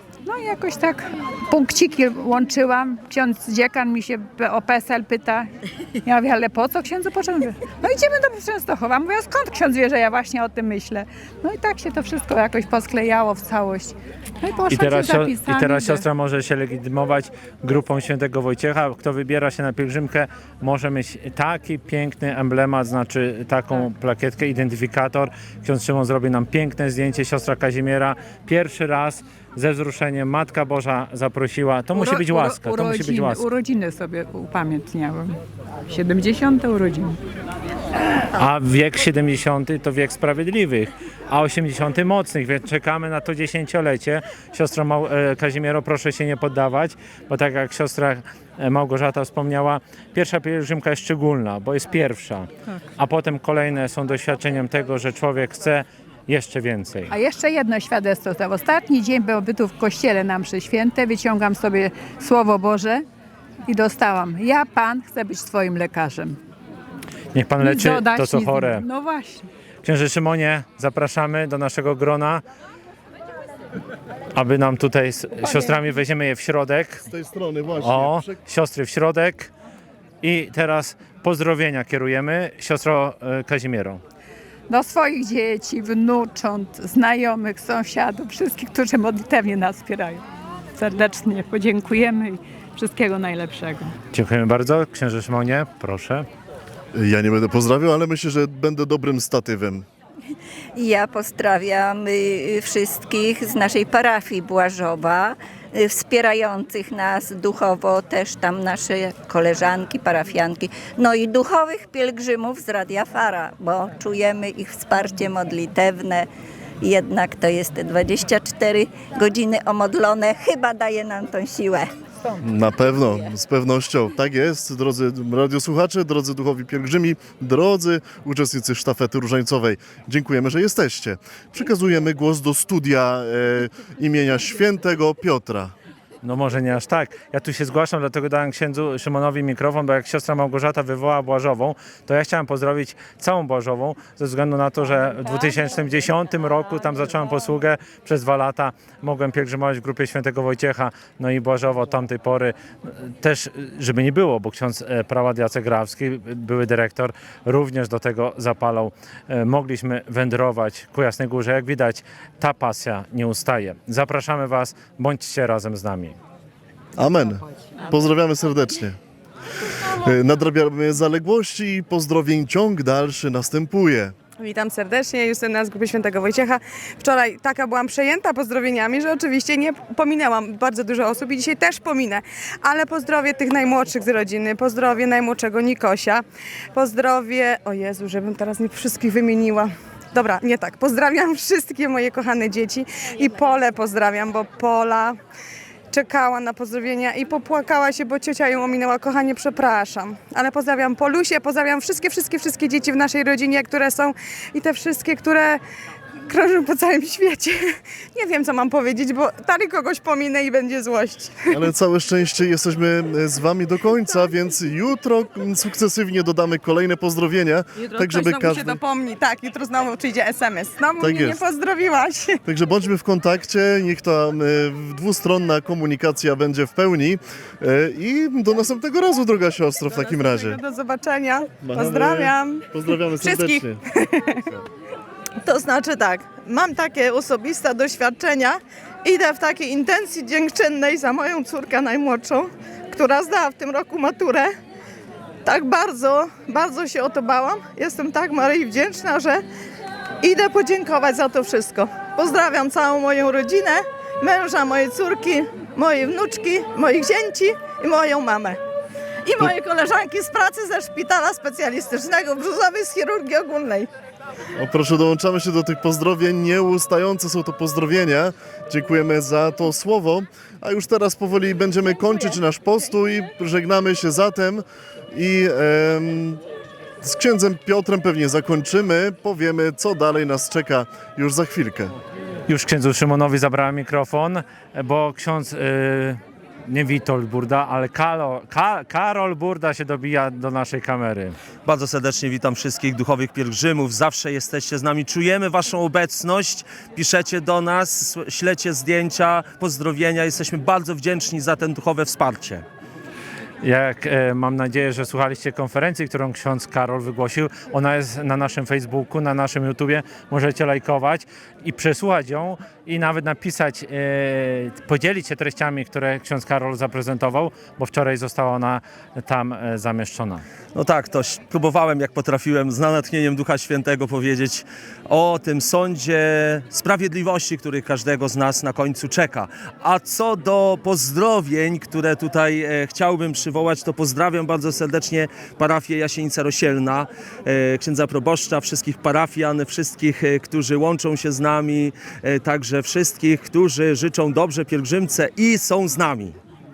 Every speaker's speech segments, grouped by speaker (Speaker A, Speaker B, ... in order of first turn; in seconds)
Speaker A: 0.2-5.5, 6.0-16.1, 31.9-37.2, 57.1-63.0, 63.7-66.4, 67.6-69.5, 84.7-90.2, 90.7-93.9
Speaker B: 14.7-33.4, 38.3-57.1, 67.3-68.8, 69.8-72.4, 74.3-77.0, 77.8-79.5, 80.2-84.0, 94.1-96.2, 136.2-166.2, 282.5-291.4, 303.6-320.4
Speaker C: 77.1-78.4, 96.9-99.8, 122.4-135.7, 167.0-169.0, 169.8-174.1, 211.5-218.8, 221.0-221.4, 222.5-230.6, 231.6-233.8, 264.6-276.4, 277.0-281.9
Speaker D: 100.7-116.3, 116.8-121.9
Speaker E: 174.4-195.2, 195.9-205.6, 206.2-211.5, 217.9-222.4, 229.9-232.7, 233.2-234.3
Speaker F: 235.4-244.5, 245.4-249.4, 250.2-258.6, 259.2-263.9
Speaker G: 291.6-302.6, 320.7-346.4